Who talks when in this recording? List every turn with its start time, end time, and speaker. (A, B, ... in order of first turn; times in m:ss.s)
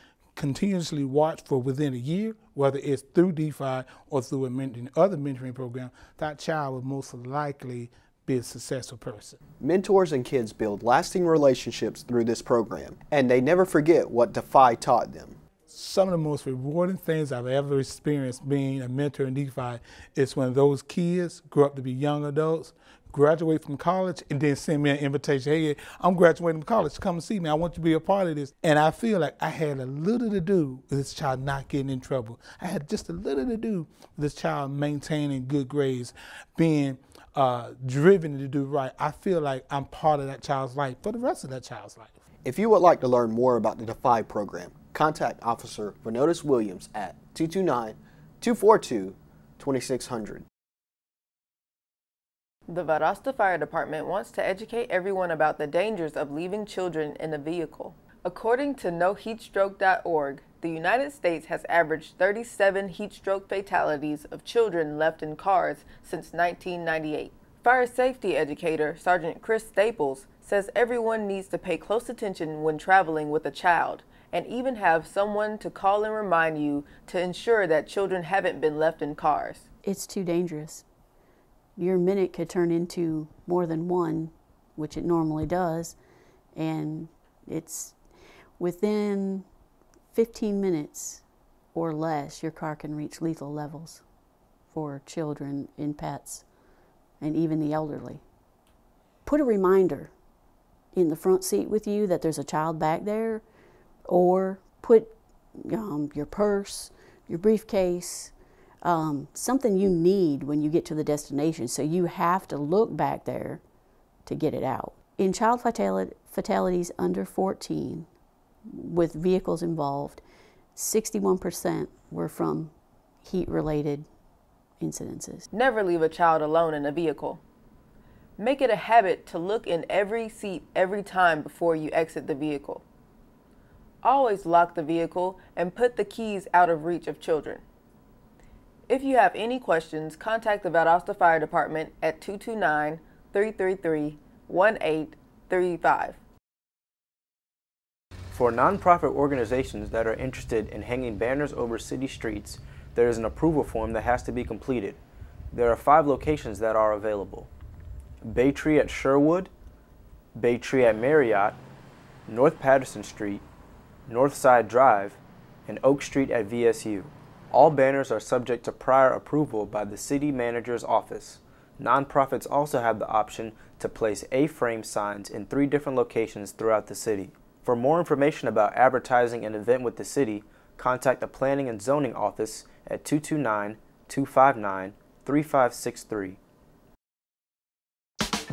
0:00.4-0:09.4 A
0:09.6-0:15.4 B
0:15.7-0:42.1 A
0:42.4-0:50.4 B
0:52.7-1:19.6 C
1:19.9-1:20.8 D
1:21.8-1:25.9 D
1:26.6-1:27.9 D
1:28.6-1:29.4 D
1:30.1-1:31.2 D
1:31.7-1:34.0 D
1:34.7-1:36.4 D
1:37.2-1:38.2 D
1:39.2-1:40.1 D
1:41.0-1:43.4 D
1:44.1-1:45.1 D
1:45.7-1:48.3 D
1:48.8-1:53.6 D
1:54.3-1:58.0 D
1:58.9-2:00.2 D
2:00.8-2:02.7 D
2:03.2-2:04.0 D
2:04.8-2:05.4 D
2:05.5-2:07.4 C
2:08.4-2:12.8 C
2:14.0-2:17.6 C
2:18.9-2:26.2 C
2:28.3-2:35.0 E
2:35.5-2:37.5 E
2:38.2-2:39.5 E
2:40.4-2:41.6 E
2:42.3-2:43.4 E
2:44.1-3:06.4 E